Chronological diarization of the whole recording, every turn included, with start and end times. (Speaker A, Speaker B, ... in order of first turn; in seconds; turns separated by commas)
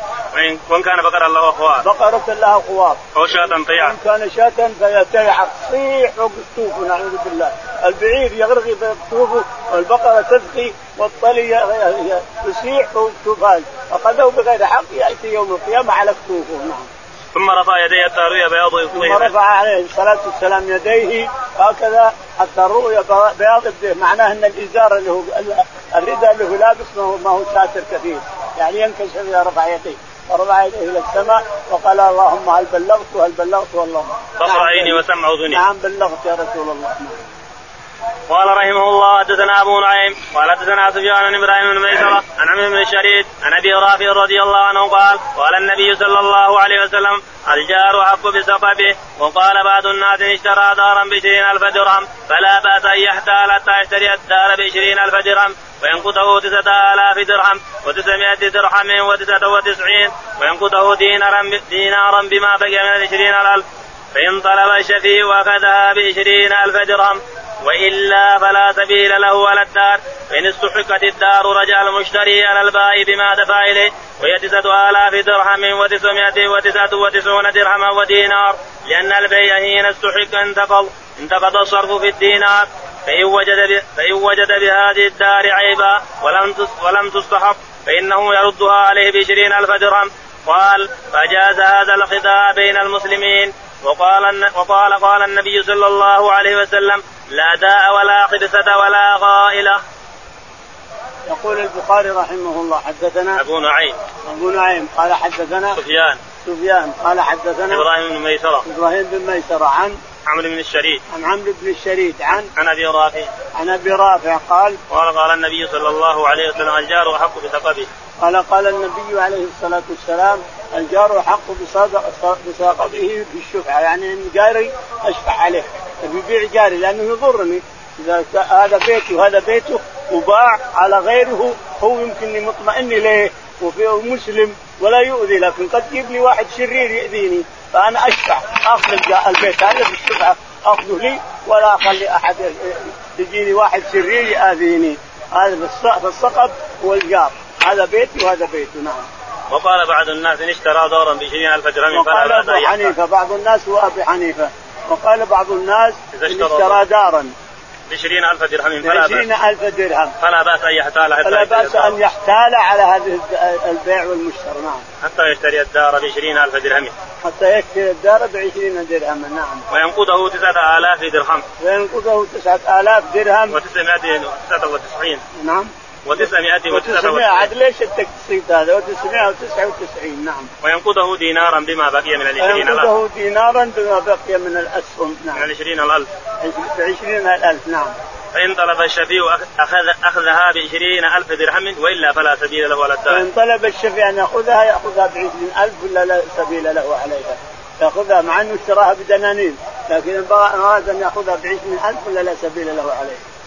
Speaker A: 0.3-1.8, Speaker B: 1.8-16.9, Speaker A: 3.1-4.0, Speaker A: 17.3-19.3, Speaker B: 18.9-37.2, Speaker A: 34.4-35.6, Speaker A: 38.3-99.8, Speaker B: 101.3-103.4, Speaker A: 103.3-104.0, Speaker B: 104.2-105.8, Speaker A: 105.8-106.2, Speaker B: 106.4-107.8, Speaker A: 107.7-108.7, Speaker B: 108.6-110.0, Speaker A: 110.2-111.0, Speaker B: 111.1-112.5, Speaker A: 112.3-113.3, Speaker B: 113.5-114.8, Speaker A: 114.9-117.9, Speaker B: 118.2-149.1, Speaker A: 149.5-152.9, Speaker B: 151.9-157.3, Speaker A: 156.1-156.8, Speaker A: 157.9-159.2, Speaker B: 158.8-160.1, Speaker A: 160.2-162.0, Speaker B: 161.2-164.8, Speaker A: 165.0-166.9, Speaker B: 167.2-169.7, Speaker A: 169.7-171.4, Speaker B: 171.6-173.6, Speaker A: 173.5-175.2, Speaker B: 175.4-175.7, Speaker A: 176.1-177.5, Speaker B: 176.7-180.5, Speaker A: 180.6-182.9, Speaker B: 182.4-185.4, Speaker A: 185.3-186.1, Speaker B: 186.4-187.9, Speaker A: 188.3-193.2, Speaker B: 193.1-203.2